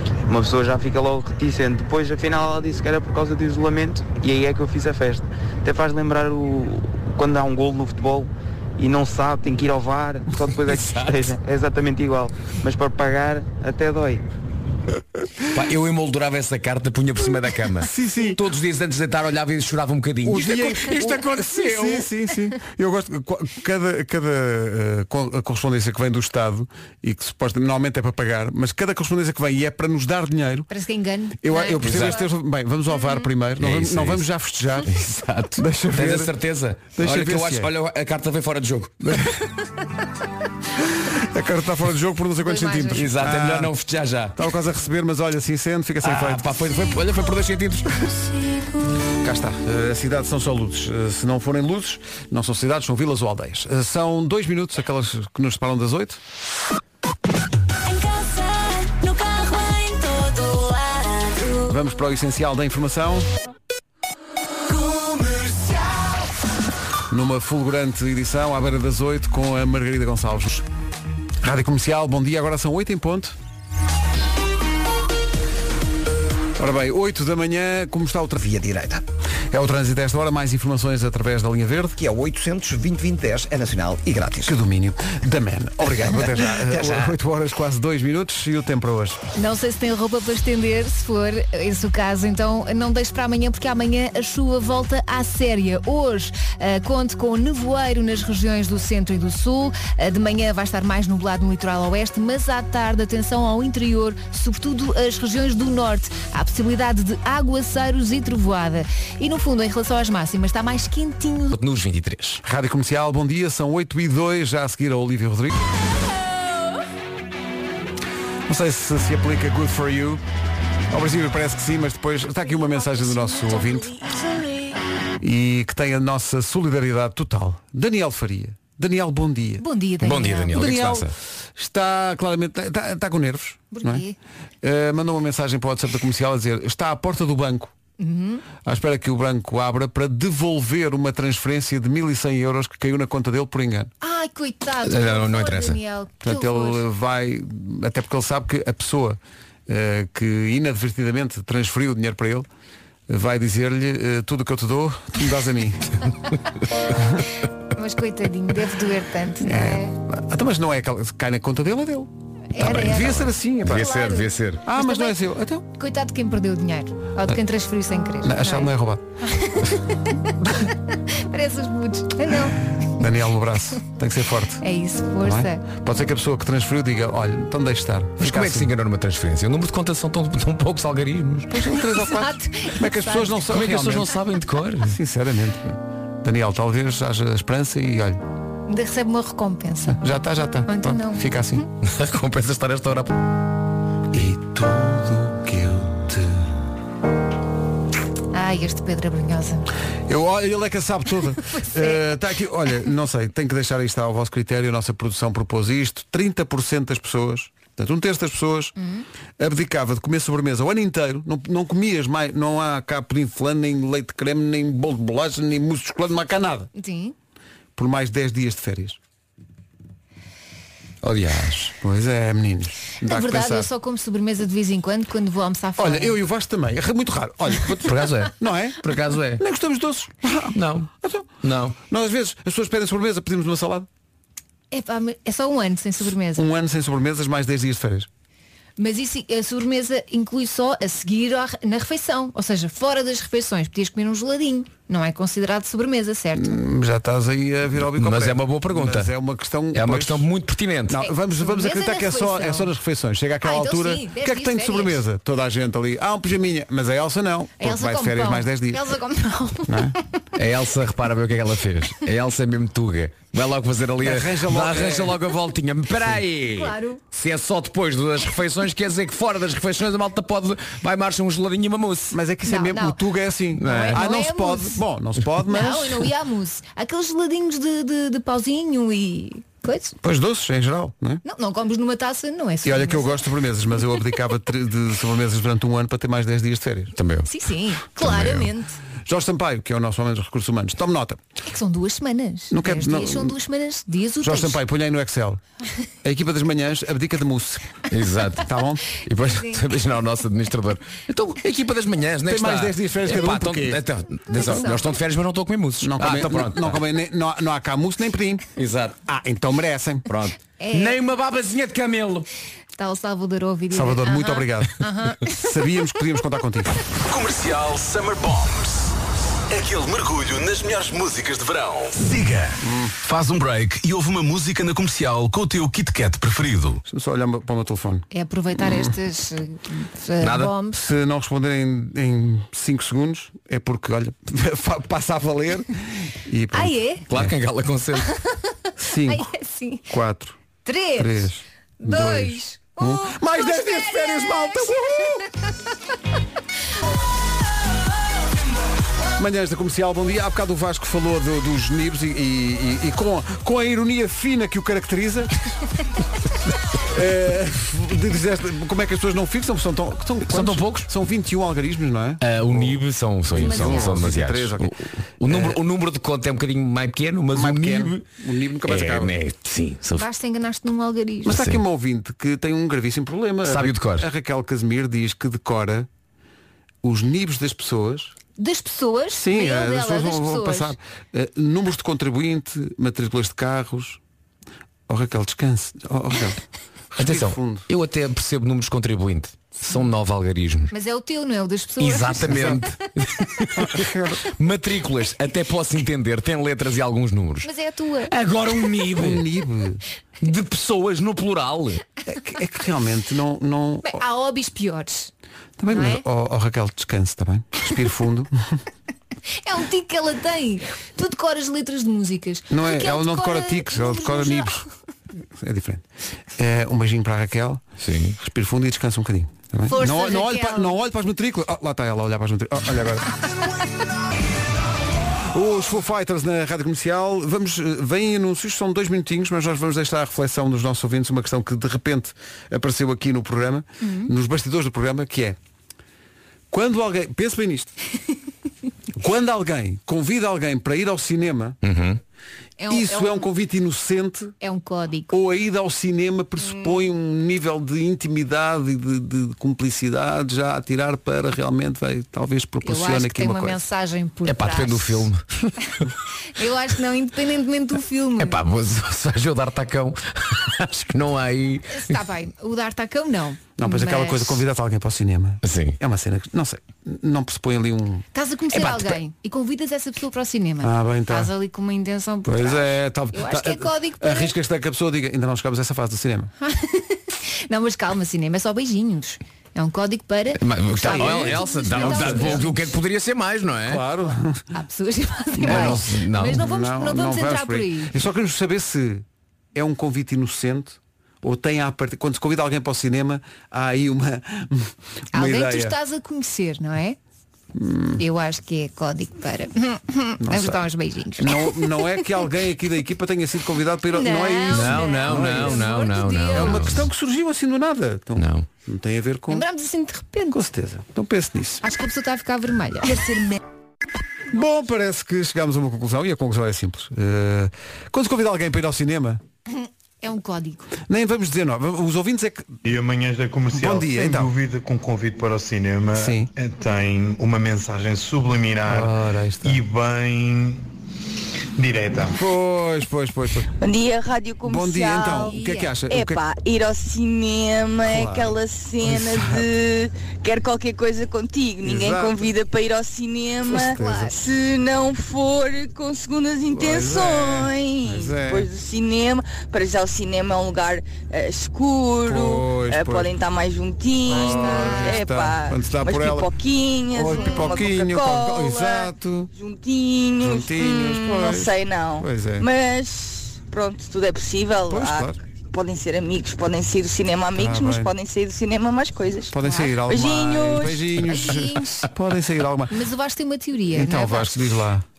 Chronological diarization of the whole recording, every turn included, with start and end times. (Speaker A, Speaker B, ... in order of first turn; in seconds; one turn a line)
Speaker A: 0.3-14.2
Speaker B: 10.7-11.3
Speaker B: 15.5-22.1
Speaker C: 17.8-18.4
Speaker C: 20.2-30.7
Speaker D: 30.7-32.3
Speaker C: 31.4-34.9
Speaker B: 31.8-32.2
Speaker D: 32.9-33.3
Speaker B: 33.6-34.2
Speaker B: 34.9-39.3
Speaker C: 35.6-36.3
Speaker C: 36.9-37.7
Speaker C: 39.0-39.3
Speaker C: 41.0-43.7
Speaker D: 42.4-43.0
Speaker B: 42.9-44.4
Speaker C: 44.3-46.5
Speaker B: 46.0-48.3
Speaker C: 49.2-56.2
Speaker E: 57.9-61.5
Speaker C: 61.6-63.3
Speaker E: 64.7-66.2
Speaker C: 67.1-70.6
Speaker C: 71.4-73.3
Speaker C: 76.6-78.4
Speaker F: 78.4-79.0
Speaker C: 79.5-82.0
Speaker F: 82.0-84.5
Speaker C: 84.4-89.2
Speaker F: 86.1-87.1
Speaker D: 89.3-111.6
Speaker B: 111.5-112.4
Speaker C: 112.4-115.5
Speaker C: 118.5-120.2
Speaker C: 120.9-123.9
Speaker D: 122.5-124.6
Speaker C: 125.2-129.6
Speaker D: 129.6-130.6
Speaker B: 130.0-131.1
Speaker C: 130.5-134.0
Speaker D: 133.7-134.2
Speaker C: 134.6-137.7
Speaker D: 138.0-138.4
Speaker C: 138.6-143.9
Speaker D: 144.0-146.8
Speaker B: 144.8-145.8
Speaker C: 146.2-152.5
Speaker C: 153.1-156.1
Speaker D: 157.7-159.9
Speaker C: 159.4-163.9
Speaker D: 162.5-165.2
Speaker B: 162.6-164.6
Speaker C: 164.6-165.7
Speaker D: 165.7-168.7
Speaker C: 168.2-169.0
Speaker D: 169.2-172.6
Speaker C: 172.9-174.6
Speaker D: 174.6-175.6
Speaker C: 175.2-178.7
Speaker B: 178.2-181.6
Speaker C: 181.5-184.1
Speaker D: 181.7-183.4
Speaker B: 183.5-185.0
Speaker C: 184.8-188.2
Speaker D: 188.7-190.0
Speaker C: 189.9-191.6
Speaker D: 190.7-191.2
Speaker B: 191.8-193.1
Speaker C: 194.1-196.5
Speaker D: 198.3-199.7
Speaker C: 200.1-208.7
Speaker D: 201.5-202.0
Speaker D: 208.8-209.0
Speaker C: 209.4-216.7
Speaker D: 216.7-217.1
Speaker C: 217.8-219.0
Speaker B: 221.0-221.7
Speaker C: 221.8-223.7
Speaker D: 223.0-226.2
Speaker C: 225.8-228.8
Speaker B: 227.7-229.4
Speaker C: 229.4-231.3
Speaker B: 230.5-230.9
Speaker B: 231.4-231.8
Speaker C: 231.9-233.9
Speaker D: 234.7-236.4
Speaker C: 236.3-238.1
Speaker D: 238.8-246.6
Speaker C: 246.3-250.2
Speaker B: 247.8-249.1
Speaker B: 249.7-251.1
Speaker C: 250.9-258.8
Speaker D: 251.0-252.7
Speaker D: 253.4-255.0
Speaker D: 257.6-260.0
Speaker C: 259.7-259.9
Speaker B: 260.4-272.2
Speaker C: 264.0-265.2
Speaker D: 266.5-267.0
Speaker C: 272.1-276.1
Speaker D: 272.4-273.0
Speaker B: 273.6-274.1
Speaker D: 273.6-274.8
Speaker D: 275.4-279.9
Speaker C: 280.0-281.2
Speaker D: 281.2-283.2
Speaker C: 282.6-286.9
Speaker B: 287.0-287.3
Speaker D: 287.2-288.7
Speaker B: 287.9-288.5
Speaker C: 289.1-291.2
Speaker D: 291.4-294.6
Speaker C: 292.5-293.4
Speaker C: 294.2-295.4
Speaker C: 296.0-297.7
Speaker B: 297.9-306.8
Speaker C: 298.4-298.9
Speaker D: 299.2-299.6
Speaker C: 302.2-303.8
Speaker D: 304.3-304.8
Speaker C: 304.4-304.7
Speaker C: 305.8-308.4
Speaker B: 308.6-309.0
Speaker C: 309.1-310.1
Speaker B: 310.1-312.3
Speaker D: 310.6-311.0
Speaker D: 312.8-315.4
Speaker C: 313.7-316.8
Speaker G: 317.1-318.9
Speaker G: 319.5-326.8
Speaker C: 322.6-322.9
Speaker C: 326.9-328.1
Speaker D: 328.1-330.8
Speaker B: 330.2-330.5
Speaker C: 330.7-337.3
Speaker D: 336.5-337.1
Speaker B: 337.1-338.1
Speaker C: 338.8-339.3
Speaker D: 339.0-339.9
Speaker C: 339.9-340.4
Speaker D: 340.6-341.3
Speaker C: 341.0-345.2
Speaker D: 341.8-345.3
Speaker C: 349.2-355.4
Speaker C: 356.8-364.7
Speaker B: 360.3-360.9
Speaker B: 362.2-368.0
Speaker D: 363.4-364.0
Speaker C: 365.3-365.6
Speaker C: 367.3-369.1
Speaker B: 368.6-370.1
Speaker D: 369.9-371.4
Speaker C: 371.2-375.9
Speaker B: 371.3-371.6
Speaker B: 373.4-374.1
Speaker C: 376.8-378.1
Speaker D: 378.4-380.7
Speaker C: 379.1-384.0
Speaker C: 384.9-386.4
Speaker C: 386.9-387.6
Speaker B: 387.0-390.7
Speaker D: 390.7-392.4
Speaker B: 391.8-397.5
Speaker C: 392.2-392.6
Speaker C: 393.6-394.2
Speaker D: 397.4-398.1
Speaker B: 398.1-399.2
Speaker C: 398.9-399.8
Speaker B: 400.2-401.8
Speaker C: 402.1-404.0
Speaker D: 403.8-405.1
Speaker C: 405.6-408.6
Speaker D: 405.7-406.0
Speaker D: 409.4-414.7
Speaker C: 412.5-414.6
Speaker C: 415.4-415.8
Speaker C: 416.4-417.6
Speaker B: 417.8-418.1
Speaker C: 418.2-423.1
Speaker D: 419.7-420.8
Speaker C: 425.3-435.4
Speaker D: 433.8-434.1
Speaker C: 436.5-437.7
Speaker C: 439.0-441.6
Speaker B: 441.6-442.0
Speaker D: 442.6-443.3
Speaker C: 442.7-444.4
Speaker D: 444.4-445.2
Speaker C: 445.1-453.6
Speaker D: 452.6-455.1
Speaker B: 454.2-455.2
Speaker D: 456.4-458.4
Speaker B: 458.2-462.0
Speaker D: 461.7-464.4
Speaker C: 463.6-468.1
Speaker B: 465.4-465.8
Speaker D: 468.1-474.3
Speaker B: 468.5-468.9
Speaker C: 470.6-471.3
Speaker C: 472.2-476.3
Speaker D: 476.4-482.8
Speaker B: 480.4-483.8
Speaker C: 480.8-482.5
Speaker C: 483.7-484.4
Speaker D: 484.5-487.9
Speaker C: 485.4-495.8
Speaker B: 485.4-486.5
Speaker D: 495.1-497.0
Speaker C: 497.5-498.0
Speaker D: 498.0-502.1
Speaker C: 500.2-500.6
Speaker C: 501.2-505.6
Speaker D: 503.9-506.6
Speaker B: 504.5-506.9
Speaker C: 506.3-509.4
Speaker B: 508.2-508.4
Speaker D: 509.3-510.4
Speaker C: 510.3-511.6
Speaker D: 511.6-513.1
Speaker C: 514.3-519.2
Speaker D: 519.5-520.6
Speaker C: 520.9-522.6
Speaker H: 522.6-530.6
Speaker C: 523.5-524.3
Speaker C: 525.9-526.3
Speaker C: 528.7-529.6
Speaker H: 531.5-532.2
Speaker C: 532.1-533.5
Speaker I: 533.6-535.3
Speaker C: 534.4-536.2
Speaker D: 535.0-535.8
Speaker I: 535.9-569.3
Speaker C: 537.9-539.5
Speaker C: 541.6-542.3
Speaker C: 543.5-544.1
Speaker D: 543.6-544.2
Speaker C: 546.5-548.5
Speaker C: 552.0-553.1
Speaker C: 554.0-556.3
Speaker C: 556.9-559.3
Speaker C: 560.2-562.5
Speaker C: 564.7-565.2
Speaker C: 567.4-567.9
Speaker C: 569.3-572.8
Speaker D: 569.4-569.8
Speaker I: 569.9-570.9
Speaker D: 571.0-571.9
Speaker D: 572.7-574.4
Speaker C: 573.7-574.8